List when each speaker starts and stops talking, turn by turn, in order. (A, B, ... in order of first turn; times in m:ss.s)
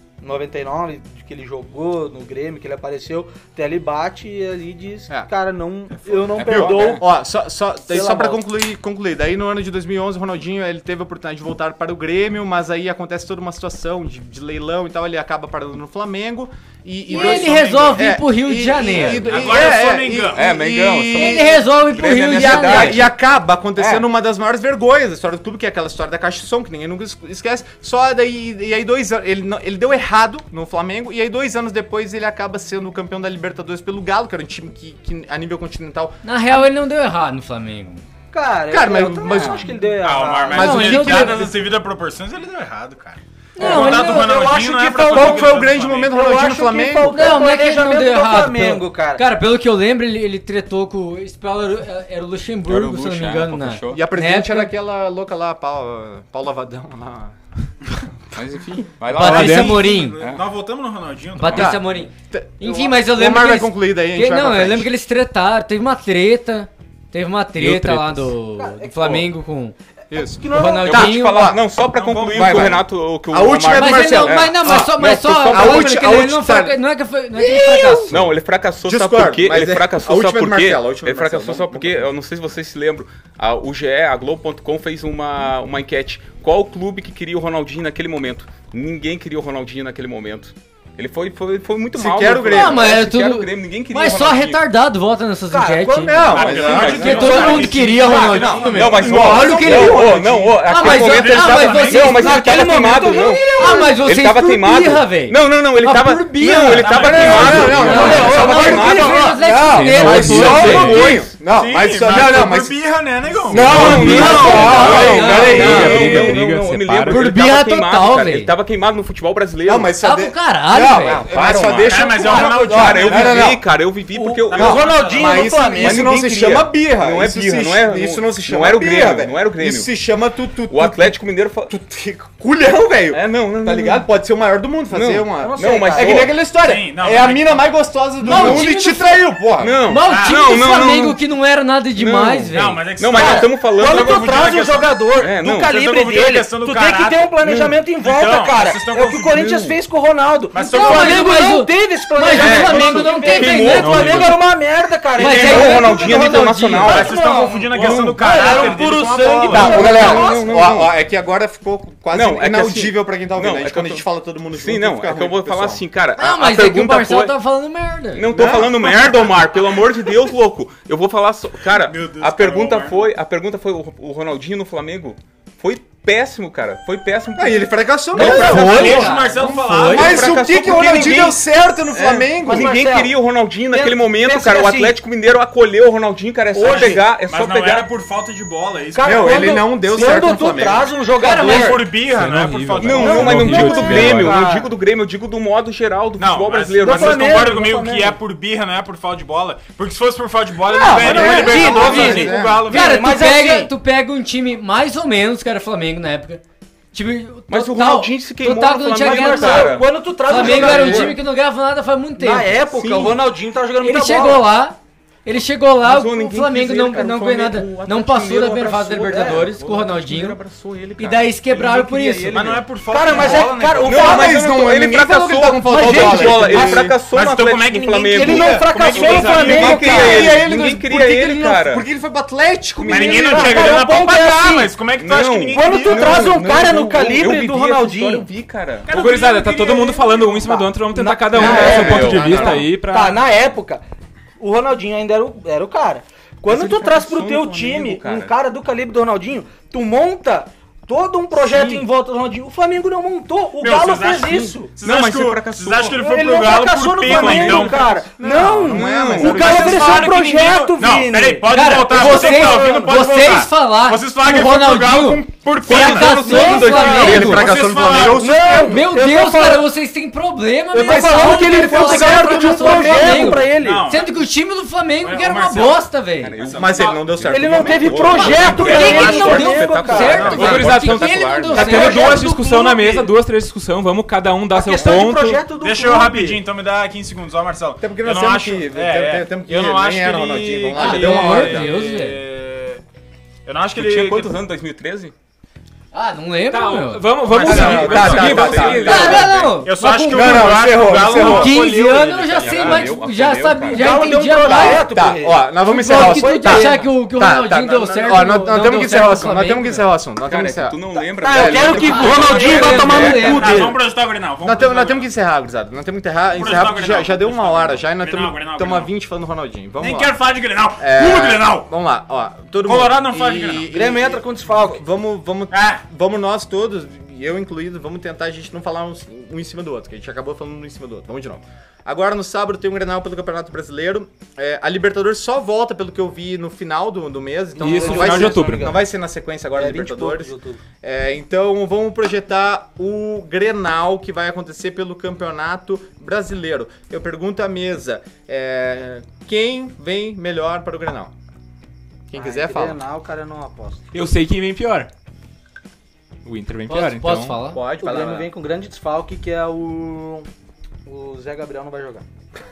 0:00.2-0:07.0 A
0:06.4-0:07.0 B
0:06.4-0:36.7 C
0:07.9-0:08.4 A
0:17.1-0:19.5 D
0:17.1-0:18.0 E
0:19.0-0:20.5 E
0:20.3-0:23.1 B
0:21.1-0:23.0 D
0:23.8-0:24.1 B
0:36.2-0:38.0 D
0:38.3-0:41.0 A
0:38.7-0:39.8 C
0:39.3-0:39.7 B
0:40.0-0:46.2 E
0:40.5-0:41.6 C
0:40.6-0:41.5 D
0:43.6-0:44.5 D
0:43.6-0:49.2 A
0:45.1-0:47.3 C
0:47.1-0:54.7 D
0:52.7-0:54.1 B
0:53.9-0:57.4 C
0:58.4-1:00.5 B
0:59.1-1:00.2 D
0:59.2-0:59.8 F
0:59.3-1:01.8 E
1:01.4-1:09.8 D
1:01.5-1:04.9 C
1:07.6-1:08.3 F
1:08.6-1:09.2 A
1:10.1-1:11.7 C
1:10.3-1:10.9 A
1:10.5-1:11.5 D
1:10.8-1:16.0 B
1:11.9-1:12.8 E
1:12.3-1:16.8 C
1:13.7-1:18.2 D
1:17.4-1:18.3 C
1:18.1-1:34.6 B
1:18.8-1:22.1 C
1:32.0-1:33.0 C
1:32.5-1:51.2 D
1:35.5-1:37.6 A
1:36.1-1:40.7 C
1:36.3-1:38.8 E
1:36.4-1:37.9 B
1:38.6-1:49.4 B
1:40.8-1:42.2 E
1:41.8-1:44.0 A
1:46.7-1:48.4 E
1:47.0-1:52.8 C
1:47.4-1:49.3 A
1:49.6-1:51.0 F
1:50.2-1:51.3 B
1:50.6-1:55.8 E
1:53.4-1:56.4 C
1:53.5-1:57.3 F
1:53.6-1:59.9 B
1:54.0-1:56.3 D
1:54.5-1:55.8 A
1:57.1-1:58.5 D
1:59.6-2:03.7 C
2:00.0-2:01.3 D
2:01.0-2:04.9 B
2:01.8-2:03.5 E
2:02.2-2:02.7 A
2:04.1-2:06.6 A
2:04.5-2:05.6 E
2:04.6-2:19.8 C
2:05.7-2:09.9 B
2:10.7-2:11.7 B
2:13.1-2:14.1 B
2:14.9-2:16.4 B
2:15.4-2:16.3 A
2:16.5-2:17.7 E
2:18.2-2:19.3 D
2:18.3-2:18.7 B
2:19.6-2:21.2 B
2:19.8-2:23.0 D
2:20.1-2:20.5 E
2:22.0-2:24.6 B
2:22.5-2:25.0 E
2:23.1-2:40.5 A
2:25.2-2:25.7 B
2:25.6-2:29.5 E
2:27.4-2:27.7 B
2:29.4-2:29.8 B
2:30.5-2:31.4 E
2:30.6-2:34.4 D
2:32.4-2:34.1 B
2:33.7-2:34.3 F
2:35.2-2:37.0 D
2:35.2-2:36.0 E
2:35.4-2:38.4 B
2:36.8-2:40.0 E
2:39.5-2:45.8 C
2:39.5-2:40.9 B
2:42.1-2:47.4 B
2:46.2-2:48.3 D
2:48.1-2:59.2 B
2:48.3-2:49.3 C
2:51.7-2:53.1 E
2:57.4-2:59.2 C
2:58.1-3:00.1 D
2:58.2-3:01.2 E
2:59.9-3:02.7 C
2:59.9-3:07.9 B
3:02.4-3:03.2 A
3:03.7-3:05.0 A
3:06.5-3:07.0 A
3:06.6-3:09.6 E
3:08.9-3:11.8 A
3:09.0-3:11.0 C
3:11.2-3:11.9 D
3:11.4-3:13.4 E
3:12.1-3:14.4 F
3:12.8-3:17.5 B
3:13.0-3:14.7 A
3:16.2-3:23.1 E
3:16.8-3:18.2 A
3:20.7-3:23.7 A
3:21.0-3:26.4 D
3:21.0-3:22.7 C
3:26.9-3:32.6 D
3:27.5-3:31.2 B
3:29.0-3:31.2 A
3:32.2-3:34.4 A
3:32.7-3:33.2 B
3:33.8-3:40.4 D
3:35.8-3:42.4 B
3:39.1-3:39.4 A
3:41.0-3:42.6 D
3:42.3-3:44.2 E
3:42.4-3:44.4 A
3:43.8-3:51.9 B
3:43.9-3:47.0 C
3:45.7-3:46.8 A
3:47.1-3:50.3 E
3:48.2-3:50.4 A
3:49.5-3:53.8 C
3:52.8-3:53.3 B
3:52.9-3:56.4 E
3:52.9-3:54.7 A
3:55.0-3:58.9 B
3:55.5-3:58.3 A
3:58.8-4:00.5 E
3:58.9-4:03.2 F
4:00.4-4:03.8 A
4:01.4-4:02.6 C
4:01.4-4:02.7 B
4:04.4-4:14.7 A
4:06.5-4:08.3 B
4:11.4-4:11.8 C
4:13.6-4:28.2 E
4:14.3-4:16.0 B
4:16.0-4:22.8 A
4:17.1-4:17.7 B
4:18.6-4:20.0 C
4:18.7-4:19.6 B
4:21.5-4:27.5 D
4:25.7-4:27.4 B
4:26.2-4:27.2 A
4:26.8-4:28.8 C
4:27.9-4:29.7 A
4:28.4-4:36.4 D
4:30.7-4:33.8 A
4:30.8-4:33.5 C
4:33.5-4:34.3 E
4:35.0-4:37.0 E
4:36.2-4:41.9 B
4:36.5-4:38.6 C
4:37.3-4:40.3 A
4:38.2-4:42.4 D
4:38.3-4:40.7 E
4:40.4-4:45.4 F
4:41.6-4:43.1 A
4:44.5-4:46.4 A
4:45.6-4:52.8 E
4:47.8-4:51.7 C
4:50.8-4:52.2 D
4:53.5-4:54.3 E
4:53.8-4:55.1 B
4:55.9-4:57.4 D
4:56.5-4:59.4 F
4:57.3-5:03.0 E
4:57.4-4:59.2 C
4:57.5-4:59.6 B
4:58.8-5:04.9 D
5:00.0-5:01.6 C
5:02.4-5:04.0 B
5:03.7-5:06.9 A
5:04.5-5:12.3 C
5:05.6-5:09.9 D
5:10.2-5:13.5 B
5:11.0-5:13.8 A
5:12.0-5:13.8 D
5:12.6-5:15.1 E
5:14.4-5:20.2 C
5:16.3-5:18.9 E
5:19.8-5:21.7 E
5:20.8-5:51.1 C
5:22.6-5:23.7 E
5:23.7-5:24.8 A
5:25.5-5:25.8 E
5:37.6-5:38.8 F
5:37.6-5:38.8 A
5:39.6-5:40.6 A
5:52.1-5:52.8 C
5:52.2-5:53.8 A
5:53.9-5:54.9 F
5:56.2-5:57.4 F
5:56.7-5:57.6 D
5:57.4-5:58.3 C
5:57.8-6:00.3 A
6:00.9-6:02.0 A